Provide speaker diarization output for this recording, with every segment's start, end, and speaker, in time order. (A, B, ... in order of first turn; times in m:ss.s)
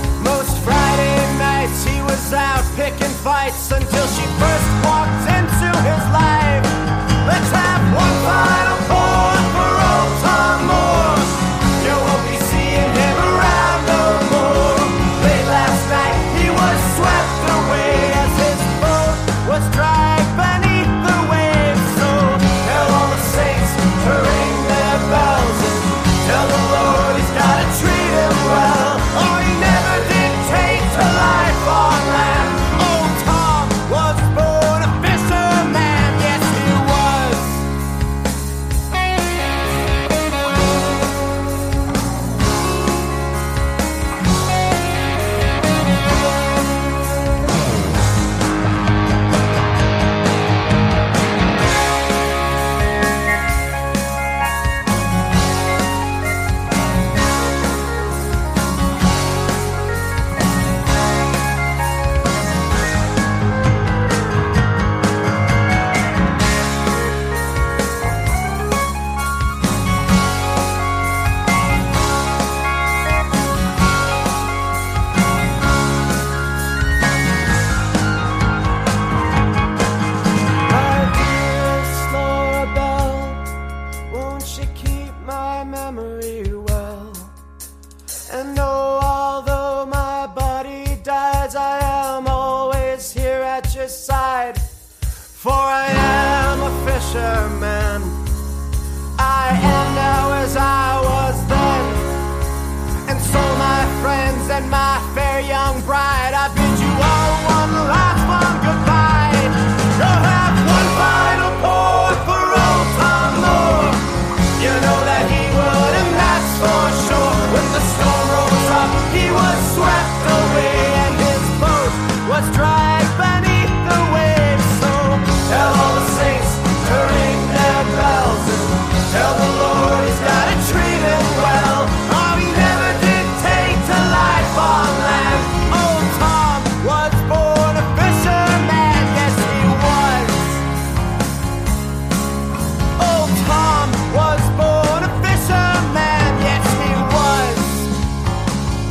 0:00.2-0:37.7 A
1:20.6-1:23.4 A
1:24.1-1:27.3 A
1:28.3-1:34.6 A
1:35.3-1:38.2 A
1:39.2-1:42.1 A
1:43.0-2:20.6 A
2:23.0-2:27.9 A